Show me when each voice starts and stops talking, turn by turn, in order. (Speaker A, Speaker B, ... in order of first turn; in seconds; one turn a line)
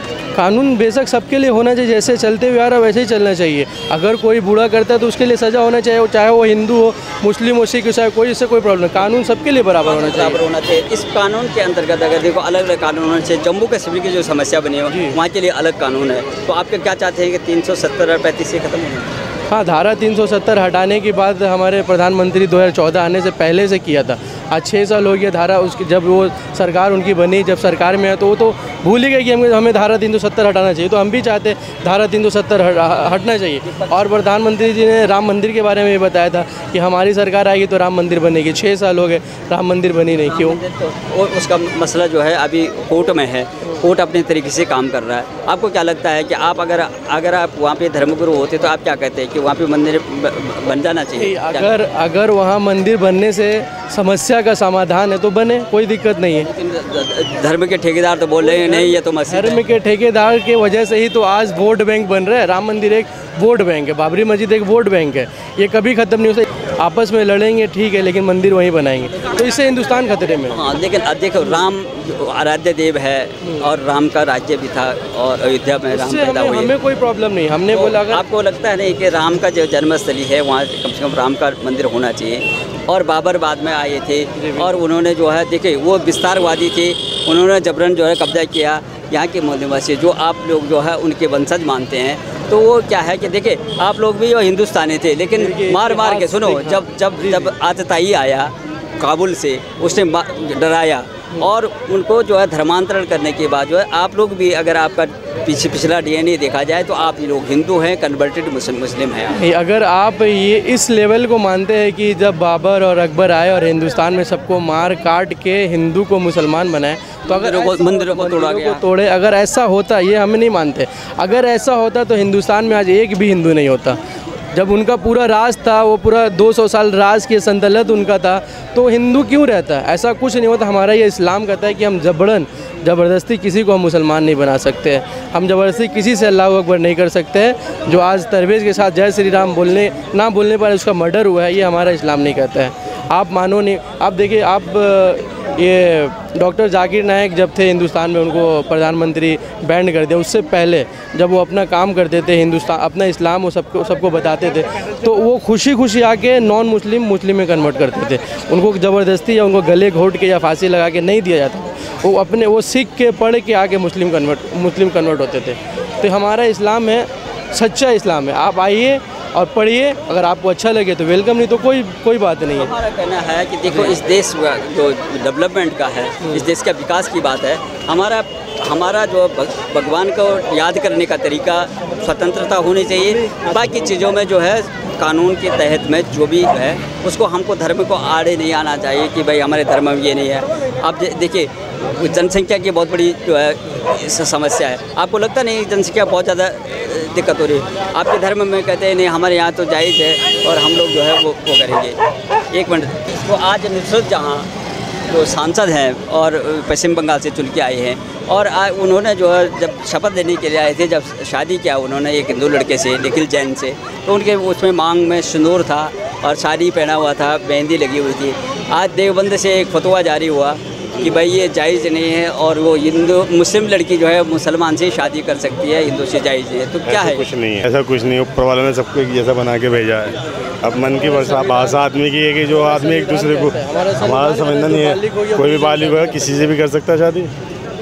Speaker A: 0.3-10.4
Speaker B: 9.8-19.1
Speaker A: 19.5-40.6
Speaker B: 33.6-34.1
Speaker B: 40.1-51.7
Speaker A: 51.2-56.5
Speaker B: 56.3-59.6
Speaker A: 58.4-70.6
Speaker B: 70.5-76.7
Speaker A: 75.9-78.2
Speaker B: 77.7-109.4
Speaker A: 84.4-84.7
Speaker A: 95.3-97.5
Speaker A: 109.3-124.0
Speaker B: 117.3-118.8
Speaker A: 124.5-172.7
Speaker B: 172.5-202.0
Speaker B: 202.5-204.5
Speaker B: 205.0-227.2
Speaker C: 226.9-237.3
Speaker A: 230.9-231.8
Speaker A: 232.5-236.5